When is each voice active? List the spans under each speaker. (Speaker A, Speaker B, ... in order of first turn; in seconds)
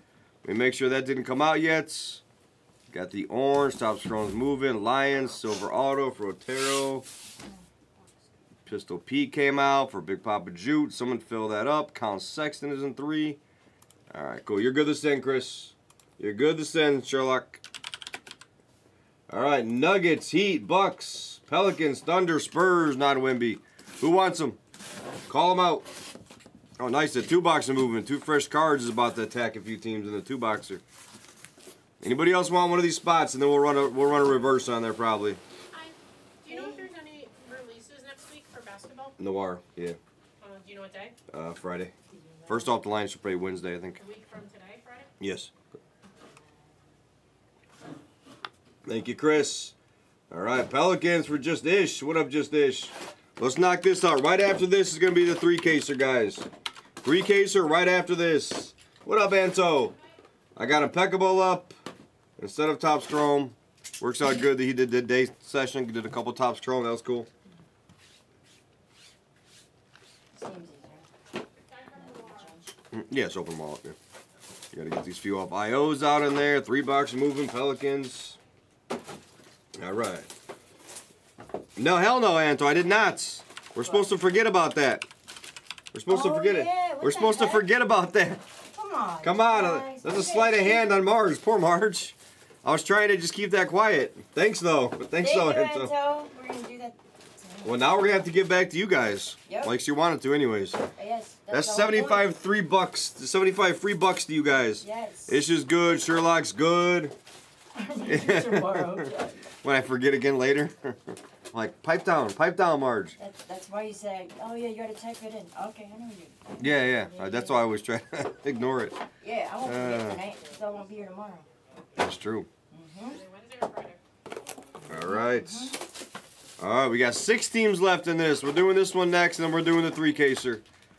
Speaker A: 0.4-2.2, 2.9-7.0, 8.7-13.4, 14.1-17.6, 19.3-24.6, 25.3-25.9, 26.8-30.8, 32.0-35.4, 39.2-40.0, 41.3-41.9, 42.5-44.0, 45.2-45.5, 48.8-49.7, 50.3-56.5, 57.0-60.0, 60.5-61.7, 62.4-67.3, 72.9-74.0, 74.7-78.4, 79.8-80.3, 81.8-85.0, 85.9-88.4, 89.2-95.9, 97.6-100.8, 101.5-107.1, 108.0-113.2, 116.6-119.0, 119.6-120.2, 122.0-122.5, 124.9-125.8, 126.6-130.6
Speaker B: 35.7-39.1, 40.4-41.1, 44.0-45.1, 71.8-72.5, 123.0-124.0
Speaker C: 36.5-36.9, 42.1-42.7, 70.3-71.1, 71.9-72.7, 83.8-84.1, 86.1-87.7, 88.7-90.9, 95.1-98.2, 99.5-99.7, 101.0-102.3, 104.7-105.4, 107.7-109.5, 113.2-117.7, 119.1-121.5, 122.7-123.2, 124.9-125.8